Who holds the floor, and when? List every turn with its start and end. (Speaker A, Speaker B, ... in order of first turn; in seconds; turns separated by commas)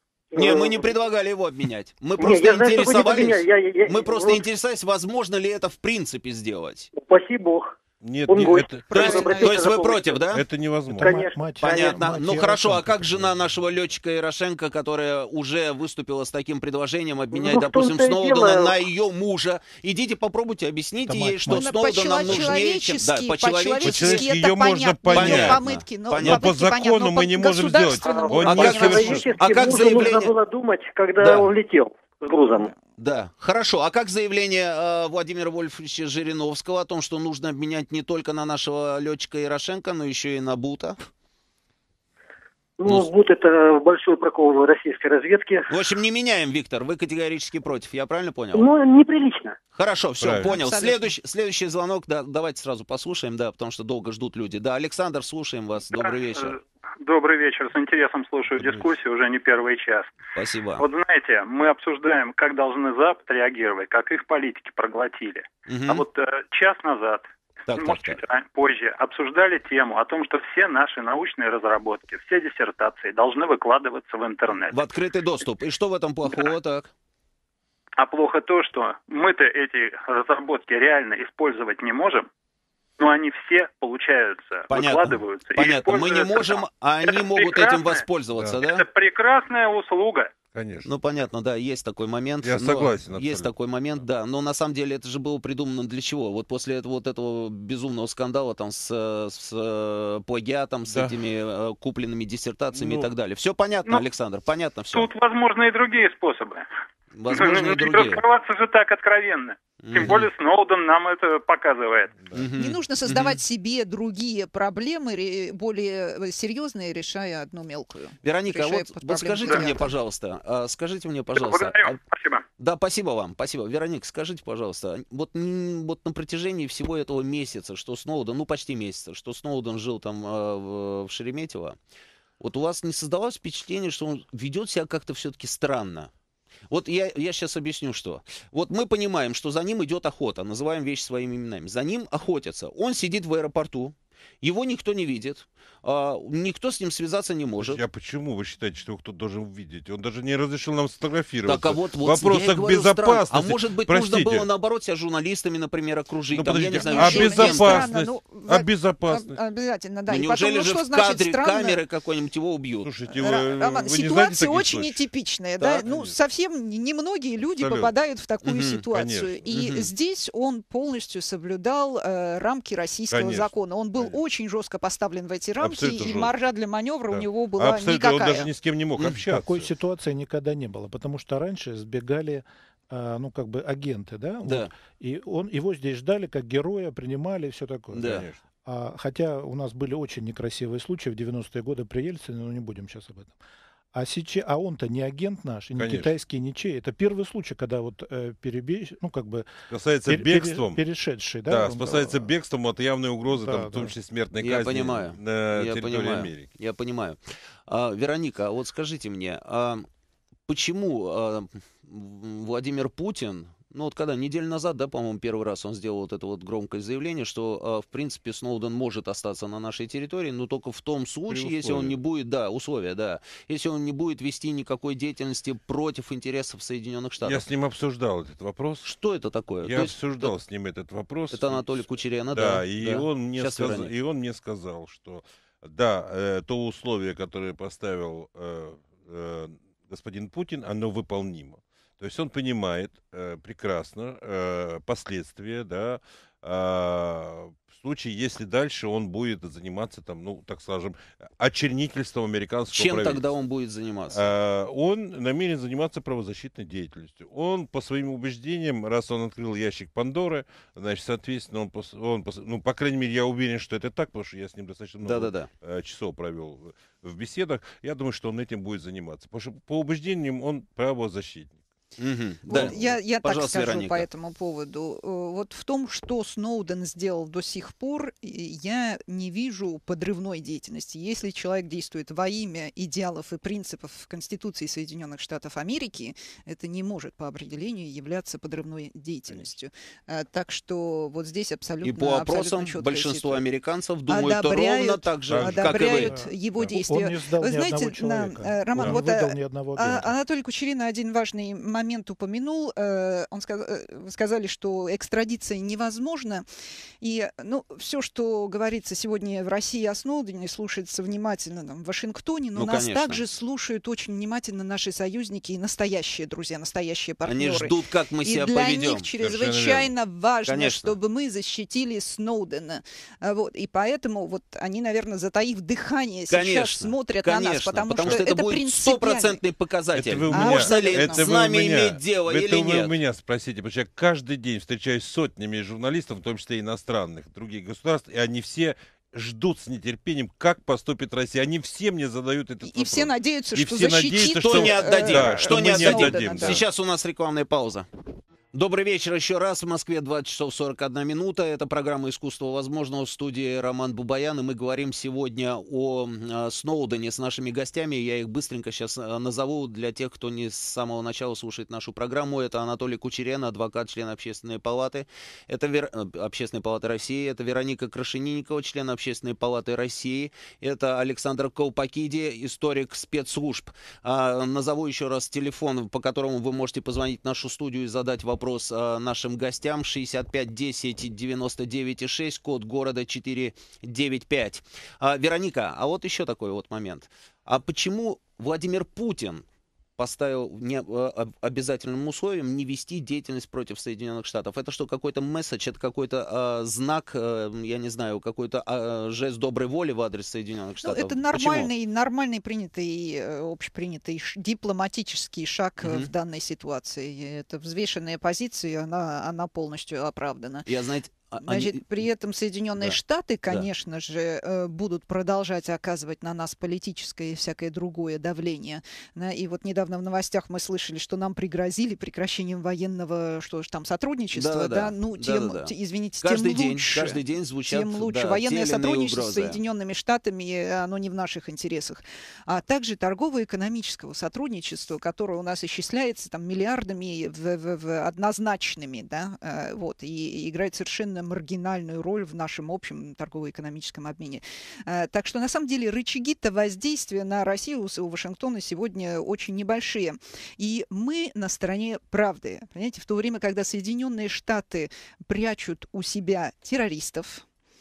Speaker A: 0.3-1.0, Speaker B: 0.3-6.9, Speaker A: 2.2-4.4, Speaker A: 6.9-7.7, Speaker C: 8.0-9.1, Speaker A: 8.3-10.3, Speaker D: 8.9-9.6, Speaker B: 8.9-10.4, Speaker C: 10.3-11.2, Speaker E: 10.9-13.4, Speaker A: 11.0-12.1, Speaker B: 11.6-24.3, Speaker A: 17.3-18.9, Speaker E: 21.0-21.7, Speaker D: 21.5-29.3, Speaker C: 23.8-29.4, Speaker B: 25.1-26.4, Speaker A: 28.0-32.7, Speaker B: 28.5-30.3, Speaker B: 31.2-31.5, Speaker B: 33.0-41.0, Speaker A: 42.8-45.7, Speaker B: 45.7-48.7, Speaker A: 48.5-49.6, Speaker B: 49.7-56.5, Speaker C: 50.2-50.5, Speaker D: 50.4-51.1, Speaker F: 55.9-60.1, Speaker C: 58.5-58.9, Speaker B: 60.3-60.9, Speaker F: 60.8-67.2, Speaker B: 65.7-66.0, Speaker B: 67.7-68.2, Speaker F: 67.8-74.8, Speaker B: 74.7-76.9, Speaker F: 78.0-82.3, Speaker F: 83.0-88.0, Speaker B: 84.7-88.8, Speaker F: 88.6-90.3, Speaker C: 90.5-90.9, Speaker B: 90.8-105.1, Speaker C: 92.4-93.5, Speaker C: 100.9-101.1, Speaker C: 102.7-103.1, Speaker F: 104.9-106.7, Speaker B: 107.2-108.2, Speaker F: 107.3-112.1, Speaker B: 109.8-110.3, Speaker B: 112.3-113.4, Speaker D: 112.5-119.9, Speaker B: 118.2-122.0, Speaker F: 121.3-122.4, Speaker B: 122.6-131.8, Speaker B: 132.4-136.1, Speaker B: 136.7-147.8, Speaker C: 147.6-154.5, Speaker B: 151.4-157.9, Speaker C: 156.3-159.4, Speaker D: 156.7-161.8, Speaker B: 160.1-162.9, Speaker C: 162.8-165.0, Speaker D: 163.1-178.5, Speaker B: 165.6-165.8, Speaker C: 165.8-166.2, Speaker C: 167.4-167.9, Speaker B: 168.4-168.8, Speaker C: 168.9-169.4, Speaker B: 169.5-169.9, Speaker C: 173.1-174.2, Speaker C: 175.6-176.3, Speaker C: 177.1-179.7, Speaker E: 179.2-193.3, Speaker B: 184.4-184.7, Speaker B: 187.9-188.3, Speaker C: 187.9-188.4, Speaker E: 193.9-199.5, Speaker C: 195.8-196.1, Speaker C: 199.7-200.8, Speaker E: 200.1-202.3, Speaker C: 201.4-206.5, Speaker E: 203.3-203.9, Speaker B: 204.4-209.9, Speaker B: 210.5-227.4, Speaker C: 221.3-221.9, Speaker C: 227.2-228.9, Speaker B: 228.8-230.3, Speaker C: 229.6-253.2, Speaker B: 231.3-233.9, Speaker B: 252.7-254.3, Speaker C: 254.1-271.6, Speaker B: 265.0-265.5, Speaker B: 272.0-274.1, Speaker D: 272.5-293.4, Speaker C: 272.5-272.9, Speaker B: 291.8-296.1, Speaker D: 294.1-306.4, Speaker C: 295.3-295.9, Speaker E: 296.0-300.1, Speaker D: 307.0-329.4, Speaker B: 312.5-313.2, Speaker B: 317.2-319.1, Speaker C: 319.2-319.9, Speaker B: 320.4-320.9, Speaker B: 326.3-332.9, Speaker C: 329.9-346.6, Speaker D: 330.3-331.2, Speaker D: 342.6-346.6, Speaker B: 344.4-347.9, Speaker B: 348.5-389.4, Speaker B: 390.0-401.7, Speaker D: 400.8-410.6, Speaker B: 405.8-406.1, Speaker B: 410.6-412.1, Speaker D: 411.4-457.4, Speaker B: 412.8-413.6, Speaker B: 424.3-429.6